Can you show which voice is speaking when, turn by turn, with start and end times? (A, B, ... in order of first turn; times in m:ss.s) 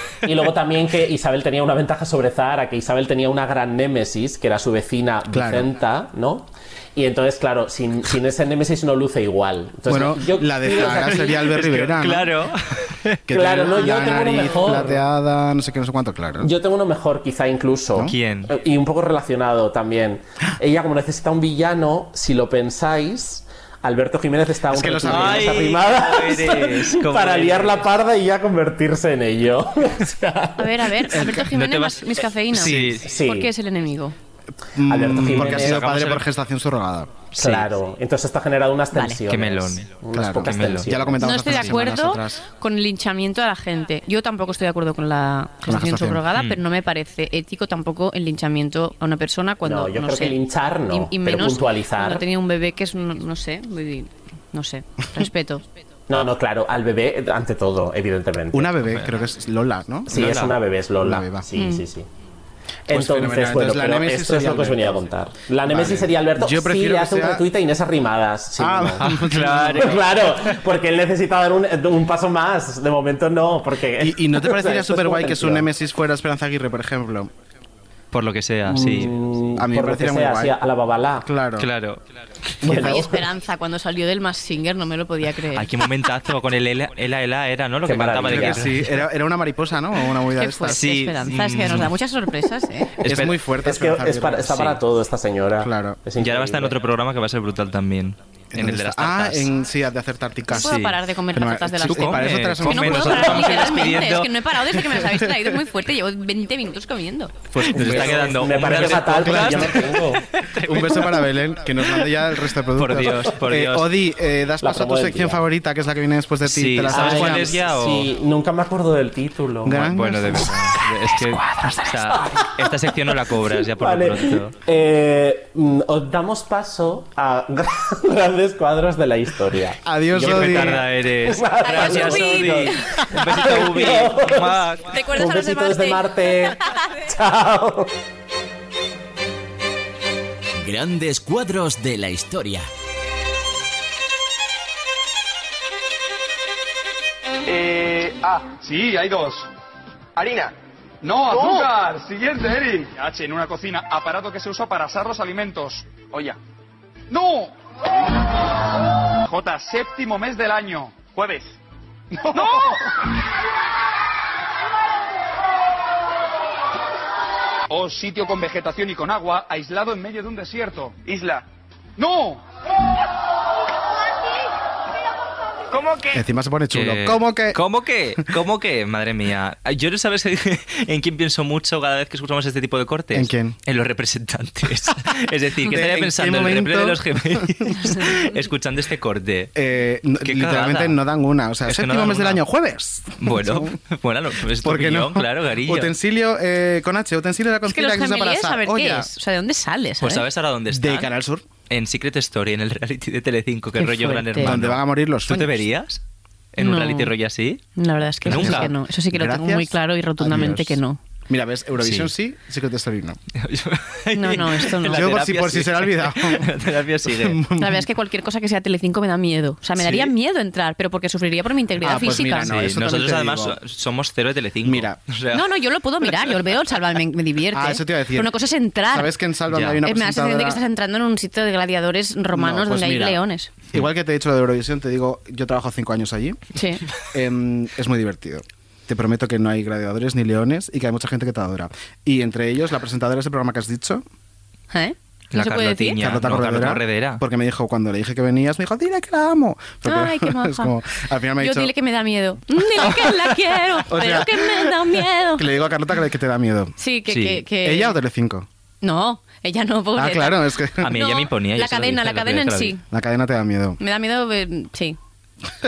0:00.2-0:11.6 A
0:05.3-0:05.7 B
0:09.9-0:12.3 B
0:10.7-0:13.2 C
0:13.3-0:16.5 B
0:13.3-0:15.0 A
0:13.7-0:14.0 C
0:16.4-0:30.8 A
0:18.0-0:18.5 C
0:24.7-0:25.8 B
0:25.0-0:27.9 C
0:30.6-0:34.1 D
0:31.1-0:31.5 B
0:31.1-0:33.1 C
0:32.5-0:33.0 B
0:33.0-0:33.5 A
0:34.7-0:37.2 B
0:34.8-0:35.9 A
0:35.2-0:36.3 C
0:37.3-0:37.7 C
0:37.4-0:41.3 A
0:38.9-0:39.2 D
0:39.3-0:41.7 C
0:40.1-0:42.4 B
0:41.2-0:55.6 D
0:45.6-0:46.2 B
0:46.3-0:46.6 C
0:49.6-0:52.2 A
0:56.1-0:58.8 A
0:58.5-1:00.5 B
1:00.1-1:02.1 A
1:00.1-1:00.6 C
1:01.0-1:01.5 B
1:01.6-1:01.8 D
1:02.9-1:09.2 A
1:02.9-1:05.1 B
1:05.6-1:07.4 B
1:08.6-1:10.0 B
1:09.0-1:10.5 C
1:09.7-1:15.7 A
1:14.0-1:17.3 B
1:18.1-1:19.2 C
1:18.6-1:21.3 A
1:19.6-1:20.6 B
1:21.2-1:21.7 B
1:21.6-1:22.0 C
1:22.6-1:22.9 C
1:22.6-1:23.1 B
1:22.6-1:23.2 A
1:22.7-1:25.7 D
1:25.5-1:29.0 C
1:27.8-1:28.7 A
1:28.2-1:30.8 B
1:30.3-1:32.9 D
1:30.7-1:31.9 C
1:33.0-1:33.4 C
1:33.0-1:34.7 B
1:33.6-1:36.8 A
1:34.5-1:34.8 C
1:35.6-1:36.0 B
1:36.2-1:39.5 C
1:38.5-1:40.8 B
1:40.5-1:47.4 D
1:40.5-1:41.0 C
1:41.3-1:43.8 B
1:41.8-1:44.3 C
1:44.9-1:45.3 B
1:47.5-1:50.0 B
1:47.6-1:51.3 C
1:47.8-1:50.2 A
1:50.6-1:57.6 B
1:51.8-1:52.1 C
1:52.7-1:53.9 C
1:54.6-1:55.4 A
1:56.4-1:58.1 C
1:56.9-1:59.9 A
1:59.6-2:00.5 B
1:59.7-2:04.6 C
2:00.8-2:17.9 A
2:09.8-2:10.8 B
2:10.1-2:15.0 C
2:11.6-2:12.9 D
2:14.8-2:17.0 D
2:20.6-2:22.7 E
2:27.4-2:29.5 F
2:30.2-2:36.4 F
2:37.1-2:37.5 F
2:39.2-2:41.6 F
2:42.2-2:42.9 F
2:47.7-2:51.4 F
2:52.0-2:52.4 F
2:55.7-2:56.2 F
2:56.1-2:57.6 B
2:56.7-3:09.5 C
3:03.1-3:03.6 B
3:05.6-3:07.7 B
3:09.5-3:13.8 B
3:10.2-3:11.0 C
3:11.6-3:12.4 C
3:13.2-3:15.9 C
3:14.6-3:19.1 B
3:17.7-3:20.3 D
3:20.0-3:21.1 C
3:20.7-3:21.4 B
3:21.7-3:26.0 C
3:23.8-3:24.5 D
3:24.4-3:25.6 B
3:26.5-3:27.6 C
3:26.6-3:27.1 D
3:27.8-3:31.0 D
3:28.2-3:28.7 C
3:28.3-3:33.2 B
3:31.8-3:32.1 C
3:33.3-3:37.4 C
3:34.1-3:35.1 D
3:34.8-3:37.9 B
3:37.6-3:42.5 D
3:41.8-3:43.6 B
3:42.4-3:45.4 C
3:44.6-3:45.0 B
3:45.3-3:49.1 D
3:47.5-3:48.3 B
3:48.9-3:50.6 B
3:49.5-3:49.8 C
3:49.8-3:53.5 D
3:52.3-3:56.4 B
3:56.5-3:56.8 D
3:57.0-4:04.0 B
4:04.7-4:06.0 D
4:05.3-4:07.2 C
4:06.0-4:11.7 B
4:09.8-4:10.7 D
4:11.4-4:15.5 D
4:12.8-4:13.1 B
4:13.8-4:16.7 B
4:16.8-4:18.0 D
4:17.1-4:17.4 C
4:17.6-4:18.5 B
4:18.8-4:22.8 D
4:19.9-4:21.0 B
4:20.8-4:22.7 C
4:22.9-4:23.8 B
4:23.8-4:25.0 D